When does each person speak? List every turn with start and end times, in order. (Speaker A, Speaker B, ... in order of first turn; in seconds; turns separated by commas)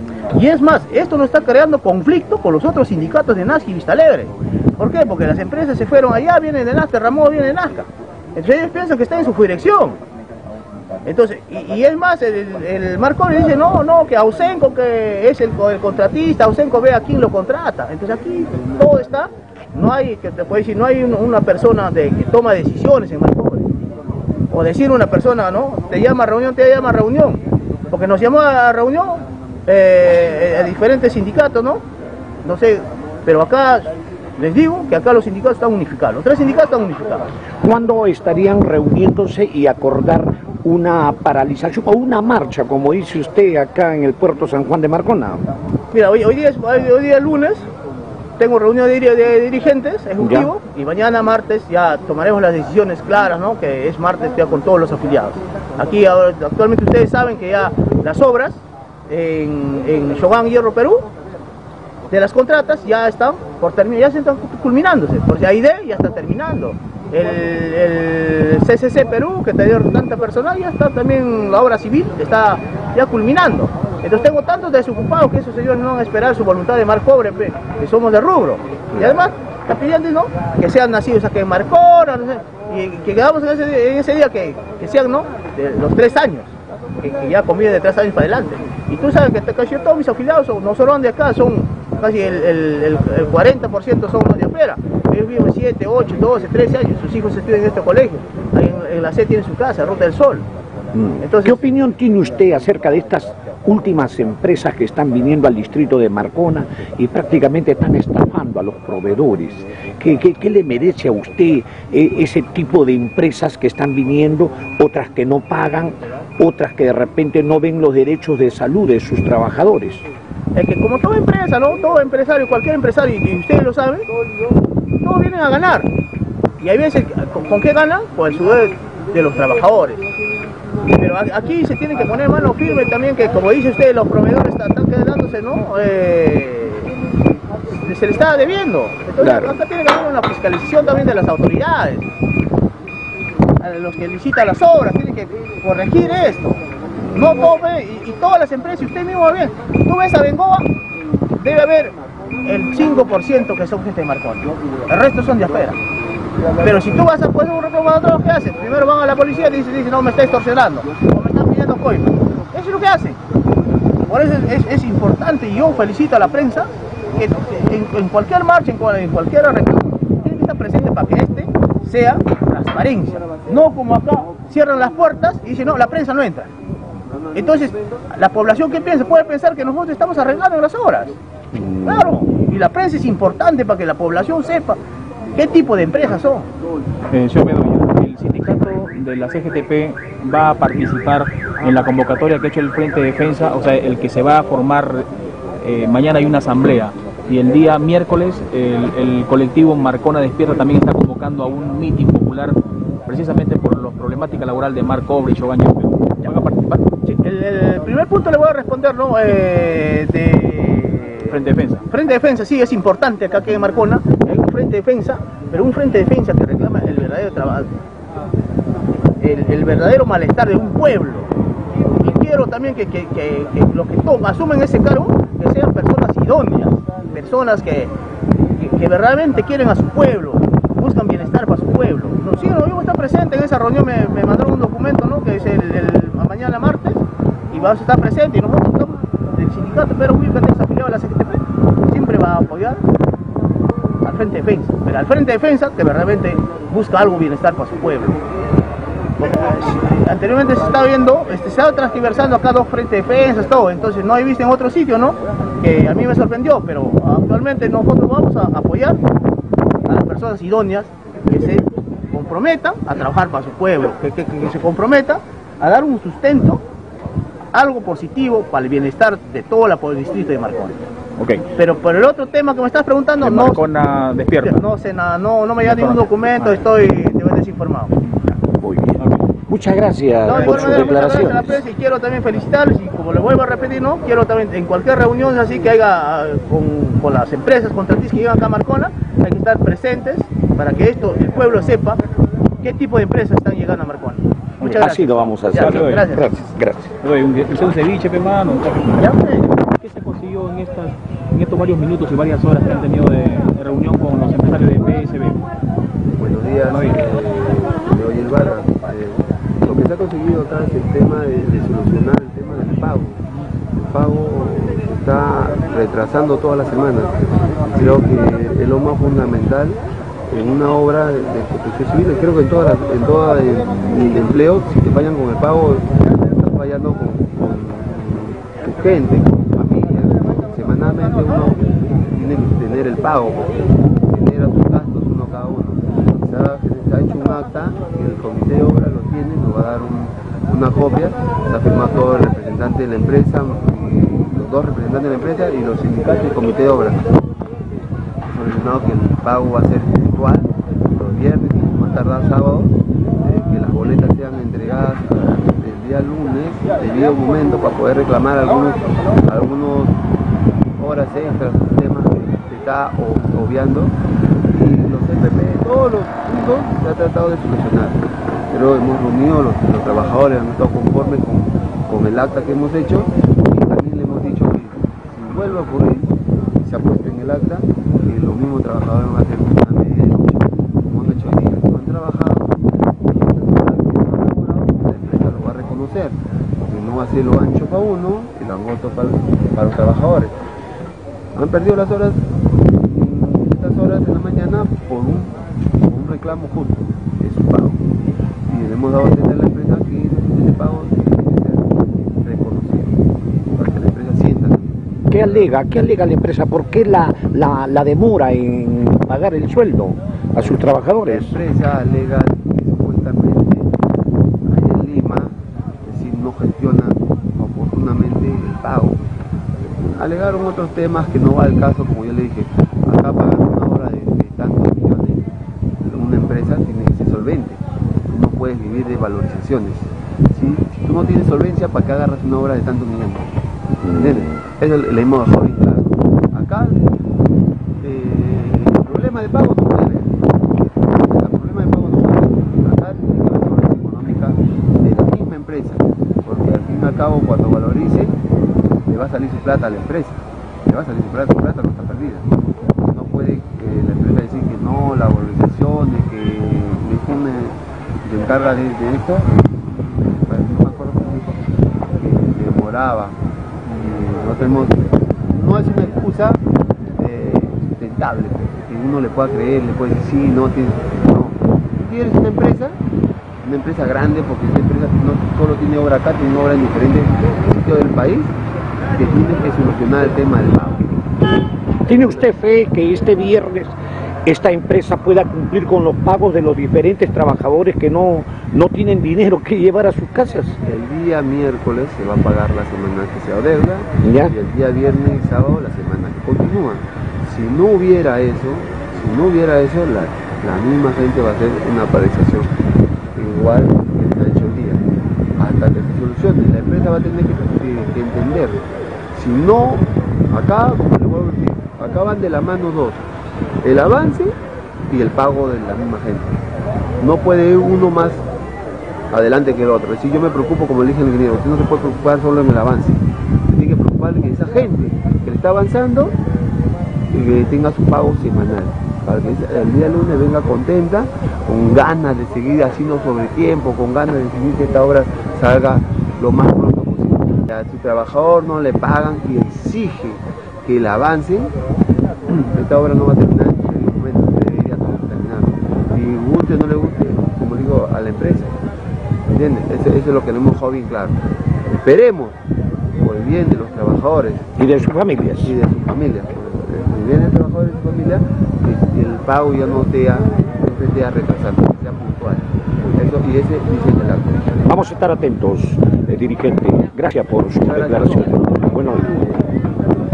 Speaker A: 0.3-10.0, Speaker A: 11.1-23.8, Speaker A: 24.5-31.8, Speaker A: 32.4-37.3, Speaker B: 37.6-45.5, Speaker A: 45.9-47.6, Speaker A: 48.4-61.1, Speaker B: 50.2-50.5, Speaker A: 62.1-100.5, Speaker B: 100.9-120.0, Speaker A: 101.2-101.6, Speaker A: 120.5-124.1, Speaker A: 125.0-125.9, Speaker A: 126.6-130.0, Speaker A: 130.8-136.9, Speaker A: 137.7-142.1, Speaker B: 139.2-139.5, Speaker A: 143.6-150.7, Speaker A: 151.4-155.8, Speaker A: 156.6-163.2, Speaker A: 164.0-176.5, Speaker A: 177.3-181.2, Speaker A: 181.7-184.8, Speaker A: 185.3-186.5, Speaker C: 187.1-195.1, Speaker C: 195.6-206.8, Speaker A: 207.0-217.7, Speaker C: 211.3-211.8, Speaker A: 219.2-221.3, Speaker A: 221.8-227.9, Speaker A: 228.6-242.8, Speaker A: 244.0-248.2, Speaker A: 249.2-259.0, Speaker A: 259.9-266.6, Speaker A: 267.5-270.8, Speaker C: 271.2-271.4, Speaker A: 271.6-273.6, Speaker C: 273.2-274.6, Speaker A: 274.4-277.9, Speaker C: 275.6-276.7, Speaker B: 278.6-281.6, Speaker A: 280.2-292.0, Speaker A: 292.6-296.3, Speaker B: 294.7-296.9, Speaker C: 295.5-296.1, Speaker C: 297.0-299.1, Speaker A: 298.9-299.5, Speaker C: 299.7-305.4, Speaker D: 306.1-313.2, Speaker C: 306.7-307.0, Speaker D: 313.7-333.5, Speaker D: 334.1-347.1, Speaker D: 348.3-359.9, Speaker D: 360.8-363.9, Speaker D: 364.5-376.1, Speaker D: 376.6-386.2, Speaker D: 386.7-390.3, Speaker D: 391.3-392.2, Speaker D: 392.8-397.8, Speaker D: 398.5-403.0, Speaker D: 403.5-405.5, Speaker B: 405.1-411.4, Speaker D: 410.4-413.7, Speaker D: 414.4-419.0, Speaker D: 419.6-425.3, Speaker D: 425.8-433.3, Speaker D: 433.9-436.9, Speaker D: 437.8-440.2, Speaker D: 441.0-448.1, Speaker D: 448.9-452.3, Speaker D: 452.8-461.4, Speaker D: 461.9-466.4, Speaker D: 467.0-472.8, Speaker D: 473.4-478.3, Speaker D: 478.9-481.0, Speaker B: 481.9-483.7, Speaker D: 481.9-482.2, Speaker B: 484.2-490.6, Speaker D: 490.6-502.5, Speaker B: 494.0-494.3, Speaker D: 503.1-508.6, Speaker D: 509.1-513.0, Speaker D: 513.6-514.3, Speaker D: 514.9-516.4, Speaker D: 517.0-518.2, Speaker D: 519.1-526.1, Speaker D: 527.1-541.5, Speaker D: 542.3-548.5, Speaker D: 549.3-552.4, Speaker D: 553.0-554.5, Speaker B: 554.6-555.5, Speaker D: 555.4-564.5, Speaker B: 564.6-569.1, Speaker D: 567.6-569.4